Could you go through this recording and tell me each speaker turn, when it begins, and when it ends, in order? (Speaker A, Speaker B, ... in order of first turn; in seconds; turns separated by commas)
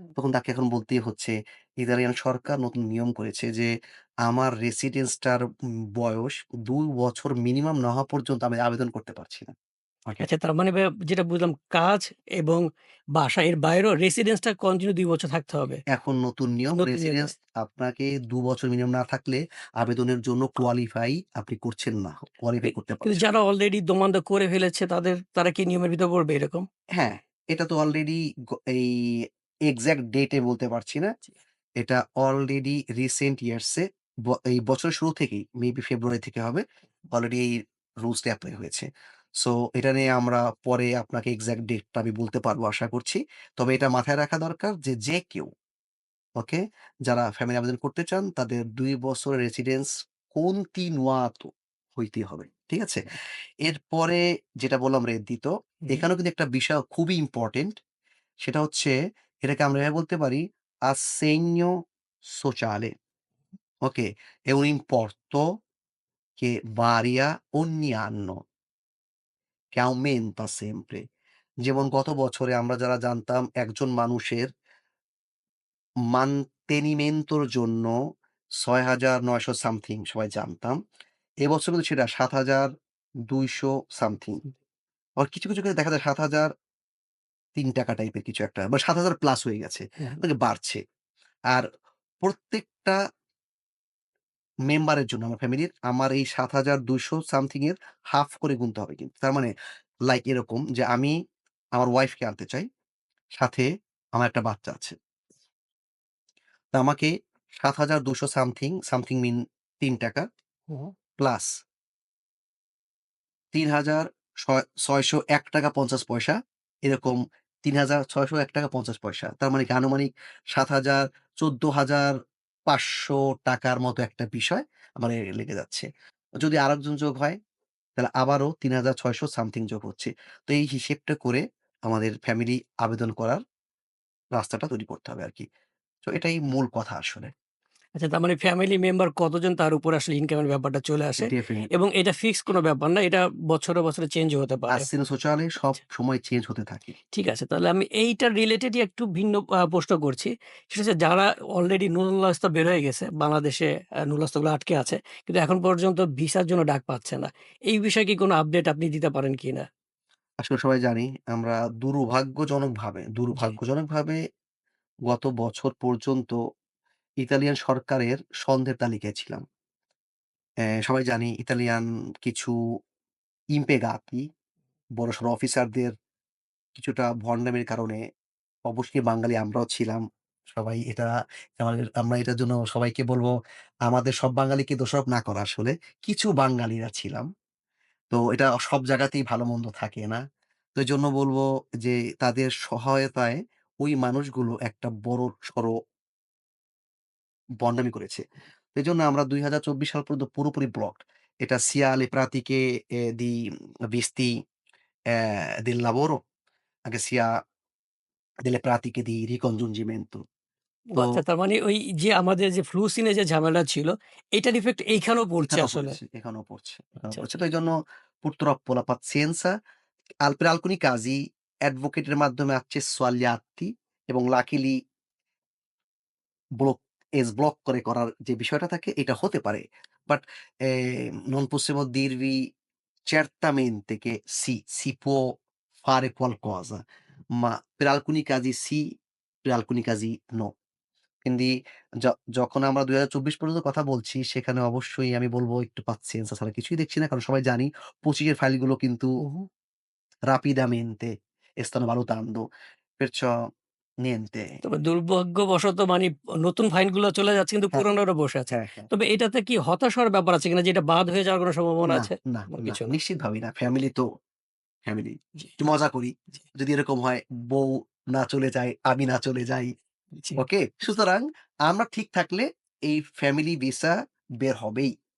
Speaker A: 0.1-3.7, Speaker A: 4.2-5.4, Speaker A: 6.0-9.5, Speaker B: 10.2-12.6, Speaker B: 13.2-15.8, Speaker A: 15.9-23.2, Speaker B: 16.8-17.3, Speaker B: 22.7-26.6, Speaker A: 27.0-31.1, Speaker A: 31.8-37.5, Speaker A: 38.0-38.9, Speaker A: 39.4-45.5, Speaker A: 46.4-53.1, Speaker A: 53.6-57.7, Speaker A: 58.4-61.7, Speaker A: 62.4-62.9, Speaker A: 63.9-65.4, Speaker A: 66.4-68.4, Speaker A: 69.8-71.0, Speaker A: 71.7-74.5, Speaker A: 76.1-77.9, Speaker A: 78.6-80.8, Speaker A: 81.4-82.7, Speaker A: 83.3-84.4, Speaker A: 85.2-86.5, Speaker A: 87.6-90.8, Speaker A: 92.2-93.0, Speaker A: 94.7-99.5, Speaker A: 100.1-101.1, Speaker A: 101.8-102.7, Speaker A: 103.4-105.0, Speaker A: 106.7-110.2, Speaker A: 111.2-111.5, Speaker A: 113.5-122.1, Speaker A: 122.7-125.9, Speaker A: 126.4-127.4, Speaker A: 128.0-133.4, Speaker A: 134.3-135.5, Speaker A: 136.1-137.3, Speaker B: 137.9-144.9, Speaker A: 141.2-141.7, Speaker A: 144.7-146.9, Speaker B: 147.1-159.7, Speaker A: 160.4-164.2, Speaker A: 165.1-166.3, Speaker A: 167.2-169.4, Speaker A: 170.7-172.5, Speaker A: 173.5-174.2, Speaker A: 175.0-175.9, Speaker A: 176.8-178.0, Speaker A: 178.7-183.3, Speaker A: 183.8-187.2, Speaker A: 188.1-190.2, Speaker A: 190.8-195.7, Speaker A: 197.6-198.2, Speaker A: 198.7-202.6, Speaker A: 203.1-203.4, Speaker A: 203.9-204.3, Speaker A: 205.1-206.2, Speaker A: 206.9-207.3, Speaker A: 208.5-210.2, Speaker B: 210.9-216.0, Speaker A: 215.5-217.7, Speaker B: 217.0-217.2, Speaker A: 218.2-219.5, Speaker A: 220.2-224.7, Speaker A: 226.6-232.4, Speaker A: 233.1-235.2, Speaker A: 235.8-236.8, Speaker A: 237.4-238.8, Speaker A: 239.4-240.5, Speaker A: 241.2-241.5, Speaker A: 242.0-249.1, Speaker B: 249.2-249.5, Speaker A: 250.3-251.1, Speaker A: 251.6-252.4, Speaker A: 253.0-253.3, Speaker A: 254.1-254.4, Speaker B: 254.6-262.9, Speaker A: 258.5-258.9, Speaker A: 261.9-264.1, Speaker A: 264.9-269.7, Speaker B: 270.1-270.4, Speaker A: 270.4-274.9